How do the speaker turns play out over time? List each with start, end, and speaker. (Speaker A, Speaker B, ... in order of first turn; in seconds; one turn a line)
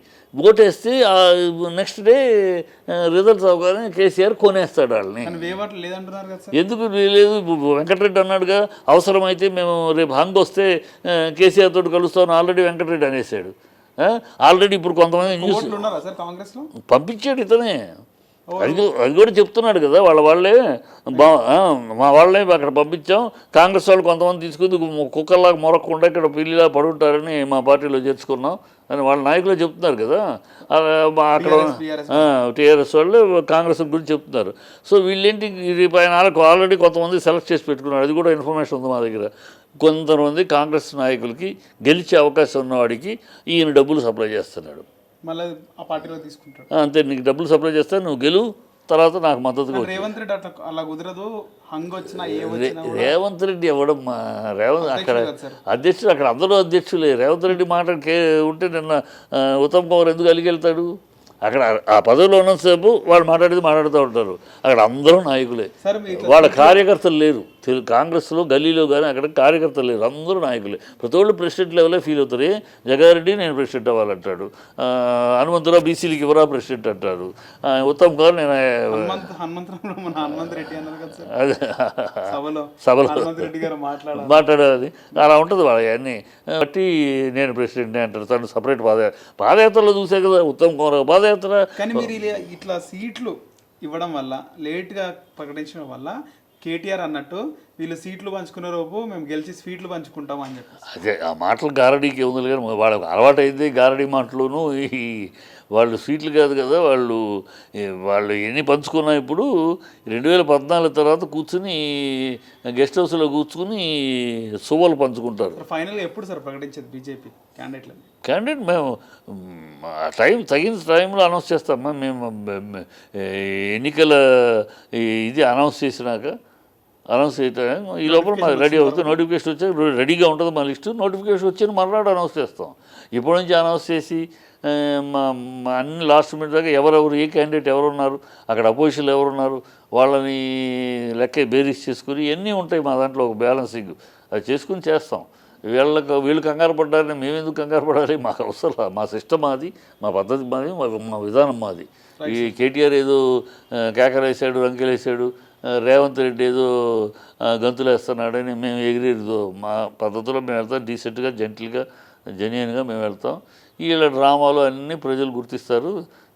Speaker A: 0.4-5.5
Speaker B: 5.2-6.6
Speaker A: 6.5-15.8
Speaker B: 15.2-16.7
Speaker A: 16.9-17.8
Speaker B: 18.5-18.9
Speaker A: 18.6-44.9
Speaker B: 31.4-32.3
Speaker B: 45.3-46.7
Speaker A: 46.7-50.1
Speaker B: 49.7-53.1
Speaker A: 52.0-60.9
Speaker B: 54.8-55.6
Speaker A: 61.4-79.3
Speaker B: 65.8-66.8
Speaker B: 78.9-81.3
Speaker A: 80.3-83.5
Speaker B: 82.2-84.4
Speaker A: 84.1-92.2
Speaker B: 91.8-100.9
Speaker A: 100.9-107.2
Speaker A: 107.7-109.5
Speaker A: 110.1-115.6
Speaker B: 115.5-118.0
Speaker A: 118.2-126.3
Speaker A: 127.1-165.9
Speaker B: 128.0-129.2
Speaker B: 152.2-152.5